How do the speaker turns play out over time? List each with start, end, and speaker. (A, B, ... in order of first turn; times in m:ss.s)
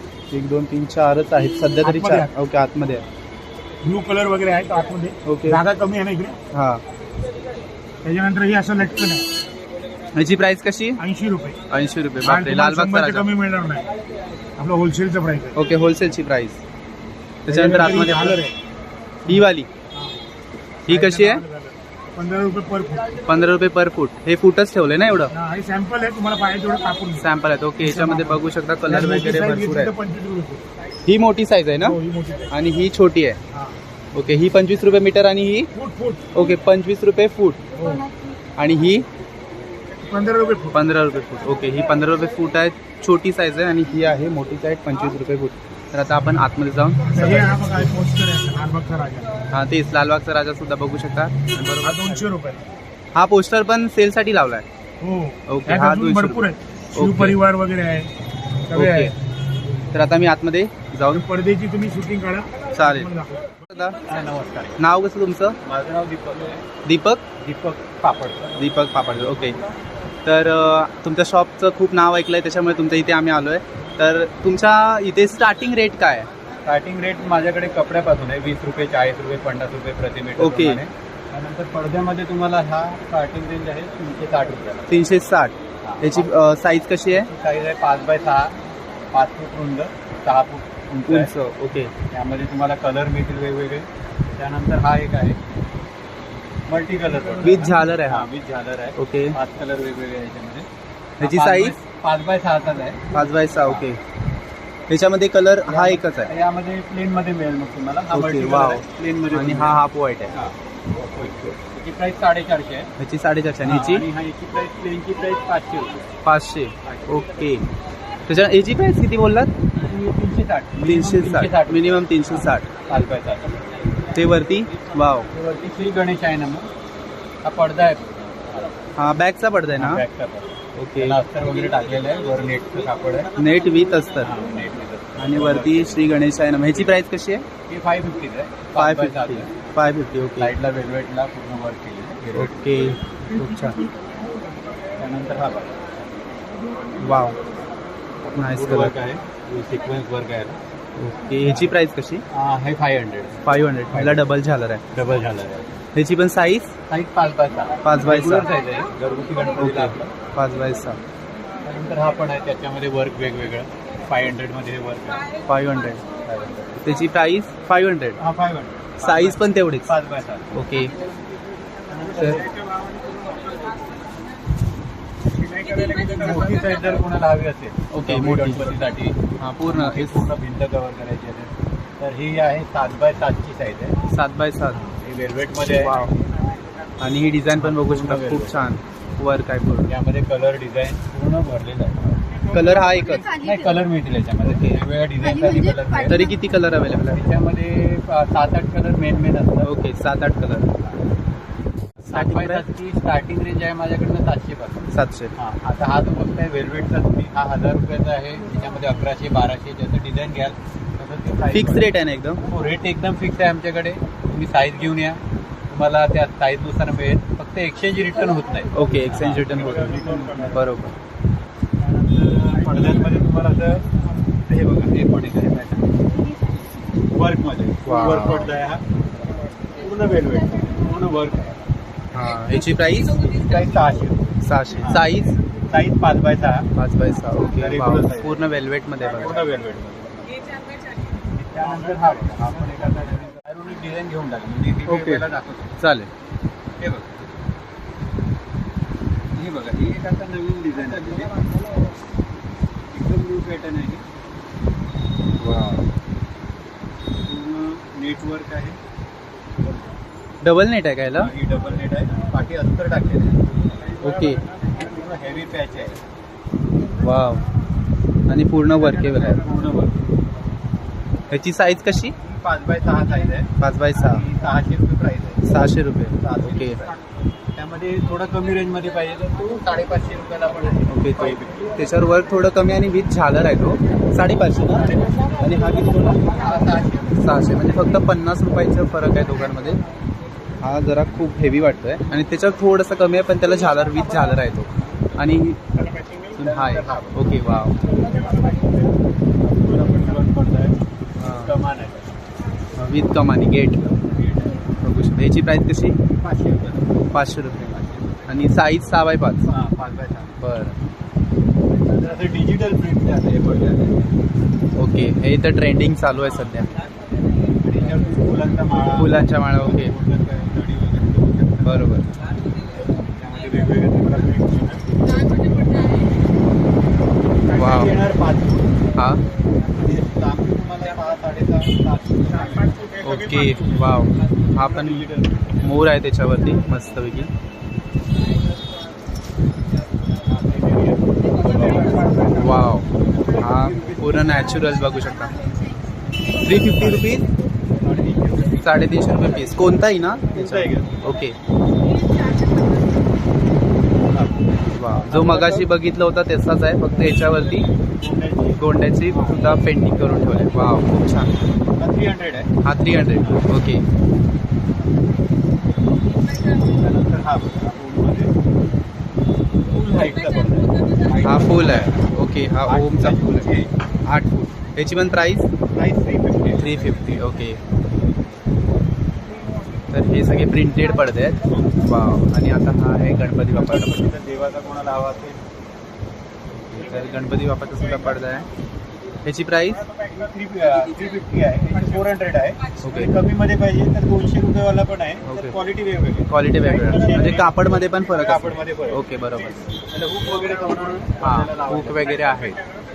0:00.3-0:03.0 A
0:01.8-0:02.3 B
0:03.8-0:06.4 B
0:05.2-0:05.6 A
0:06.5-0:06.8 A
0:08.0-0:09.2 B
0:10.1-0:11.0 A
0:11.0-0:11.6 B
0:11.7-0:13.2 A
0:12.2-0:13.9 B
0:14.6-0:15.6 B
0:15.5-0:16.6 A
0:17.4-0:18.4 A
0:17.5-0:18.5 B
0:19.2-0:19.7 A
0:20.9-0:21.4 A
0:20.9-0:23.2 B
0:23.2-0:25.3 A
0:25.3-0:27.2 B
0:27.2-0:29.9 A
0:27.8-0:30.6 B
0:31.0-0:32.0 A
0:31.8-0:32.5 B
0:32.5-0:33.4 A
0:34.1-0:35.7 A
0:35.7-0:36.4 B
0:36.3-0:37.6 A
0:37.7-0:38.1 B
0:38.6-0:39.0 A
0:40.0-0:40.8 B
0:40.7-0:47.5 A
0:47.1-0:49.3 B
0:49.5-0:52.2 A
0:51.8-0:52.6 B
0:53.1-0:54.6 A
0:55.0-0:58.1 B
0:55.5-0:56.4 A
0:56.9-0:57.4 A
0:58.7-0:59.1 B
0:58.7-0:59.1 A
0:59.9-1:01.2 A
1:01.1-1:03.6 B
1:02.7-1:03.1 A
1:03.7-1:04.0 A
1:04.0-1:04.8 C
1:04.8-1:05.6 A
1:05.6-1:06.6 C
1:06.8-1:07.2 A
1:07.4-1:09.5 C
1:08.6-1:09.6 A
1:10.2-1:16.3 A
1:16.6-1:24.9 C
1:20.4-1:20.8 A
1:24.9-1:27.3 A
1:25.8-1:26.3 C
1:27.1-1:28.6 C
1:29.1-1:31.3 C
1:31.1-1:31.9 A
1:32.1-1:35.4 C
1:36.7-1:40.7 C
1:37.1-1:37.6 B
1:37.4-1:38.3 A
1:39.0-1:39.3 A
1:41.2-1:41.7 A
1:41.2-1:43.9 C
1:43.1-1:44.0 A
1:44.9-1:46.3 A
1:45.7-1:52.9 C
1:48.1-1:50.3 A
1:53.0-1:54.0 A
1:53.6-1:56.1 C
1:56.2-1:57.6 A
1:56.8-1:57.2 C
1:58.3-1:59.5 A
1:59.8-2:03.9 C
2:00.8-2:02.7 A
2:04.1-2:05.3 A
2:05.3-2:06.7 C
2:07.4-2:08.8 C
2:09.0-2:10.0 A
2:09.7-2:13.3 C
2:10.8-2:11.2 A
2:13.4-2:14.3 A
2:14.2-2:16.1 C
2:15.2-2:17.4 A
2:17.7-2:19.5 C
2:18.8-2:20.5 A
2:20.4-2:23.2 C
2:22.3-2:23.8 A
2:25.0-2:25.9 C
2:27.0-2:27.4 A
2:28.2-2:29.0 A
2:28.5-2:30.6 C
2:31.0-2:32.2 A
2:31.4-2:31.7 C
2:32.3-2:34.3 C
2:33.4-2:34.8 A
2:34.9-2:35.7 C
2:35.9-2:36.7 A
2:36.9-2:40.1 C
2:37.8-2:38.5 A
2:39.6-2:41.0 A
2:41.6-2:45.3 C
2:45.4-2:46.0 A
2:46.2-2:46.8 C
2:46.8-2:48.2 A
2:48.2-2:50.6 C
2:49.0-2:49.9 A
2:50.5-2:50.9 A
2:51.9-2:52.7 C
2:55.4-2:56.4 B
2:56.1-3:04.0 C
2:57.9-2:58.8 A
2:59.4-3:00.3 A
3:04.1-3:04.8 A
3:05.0-3:06.0 C
3:05.6-3:06.1 A
3:07.0-3:09.9 A
3:07.5-3:08.7 C
3:09.9-3:12.2 C
3:12.5-3:13.3 B
3:12.5-3:13.3 A
3:13.2-3:16.2 C
3:14.4-3:14.8 A
3:16.1-3:17.2 A
3:16.9-3:19.7 C
3:19.6-3:20.7 A
3:22.0-3:22.6 A
3:22.1-3:31.9 C
3:24.9-3:25.3 A
3:31.5-3:32.4 A
3:32.4-3:40.6 C
3:38.7-3:41.0 A
3:39.5-3:40.4 B
3:41.8-3:43.8 C
3:44.4-3:45.9 C
3:47.1-3:48.8 C
3:47.8-3:48.5 A
3:49.8-3:51.6 C
3:52.1-3:53.2 A
3:53.1-3:56.7 C
3:54.4-3:55.4 A
3:56.8-3:59.4 A
3:57.4-3:58.5 C
3:59.0-4:00.2 C
4:01.3-4:05.7 C
4:04.9-4:05.2 A
4:05.8-4:06.1 A
4:06.8-4:07.0 C
4:09.3-4:11.5 C
4:12.9-4:14.0 C
4:15.4-4:15.9 A
4:17.2-4:18.8 C
4:20.4-4:21.3 A
4:21.2-4:23.4 C
4:24.0-4:24.4 A
4:24.7-4:26.0 C
4:27.0-4:27.4 A
4:28.3-4:29.4 A
4:28.7-4:30.0 C
4:31.3-4:32.1 A
4:32.2-4:35.6 C
4:33.6-4:34.2 A
4:35.4-4:36.8 A
4:36.2-4:36.9 C
4:37.6-4:41.7 C
4:40.9-4:46.1 A
4:44.7-4:47.2 C
4:47.2-4:49.8 A
4:50.6-4:55.6 A
4:55.8-4:56.2 B
4:56.4-4:57.7 A
4:56.4-4:57.4 C
4:58.0-4:58.7 C
4:59.4-5:00.8 C
5:01.2-5:01.5 A
5:01.3-5:02.1 C
5:02.8-5:04.0 A
5:04.8-5:06.0 A
5:06.2-5:08.4 C
5:07.1-5:09.4 A
5:09.4-5:10.4 C
5:10.4-5:10.8 A
5:11.8-5:14.1 C
5:14.8-5:16.7 A
5:17.6-5:21.9 C
5:19.0-5:19.9 A
5:21.6-5:22.1 A
5:23.1-5:25.5 C
5:27.5-5:28.8 C
5:27.5-5:28.0 A
5:29.0-5:29.2 A
5:29.7-5:32.9 C
5:32.5-5:33.8 B
5:33.0-5:35.1 A
5:34.5-5:35.6 C
5:35.6-5:37.3 A
5:40.2-5:42.5 C
5:41.4-5:42.5 B
5:42.2-5:45.5 A
5:43.2-5:44.6 C
5:46.4-5:47.3 A
5:46.4-5:47.2 C
5:47.8-5:49.7 C
5:48.6-5:51.4 A
5:50.3-5:51.0 C
5:54.0-5:55.6 C
5:54.7-5:57.7 A
5:58.0-5:59.4 C
5:58.5-6:01.3 A
6:01.8-6:03.5 C
6:02.6-6:03.8 A
6:06.5-6:08.3 C
6:09.7-6:13.7 C
6:11.2-6:13.5 A
6:14.0-6:15.5 A
6:15.7-6:17.1 C
6:16.6-6:17.6 A
6:19.9-6:24.1 A
6:23.5-6:25.4 C
6:26.7-6:28.5 A
6:29.2-6:29.8 A
6:30.0-6:42.6 C
6:32.8-6:33.1 A
6:35.2-6:35.6 A
6:36.3-6:39.6 A
6:41.2-6:42.6 A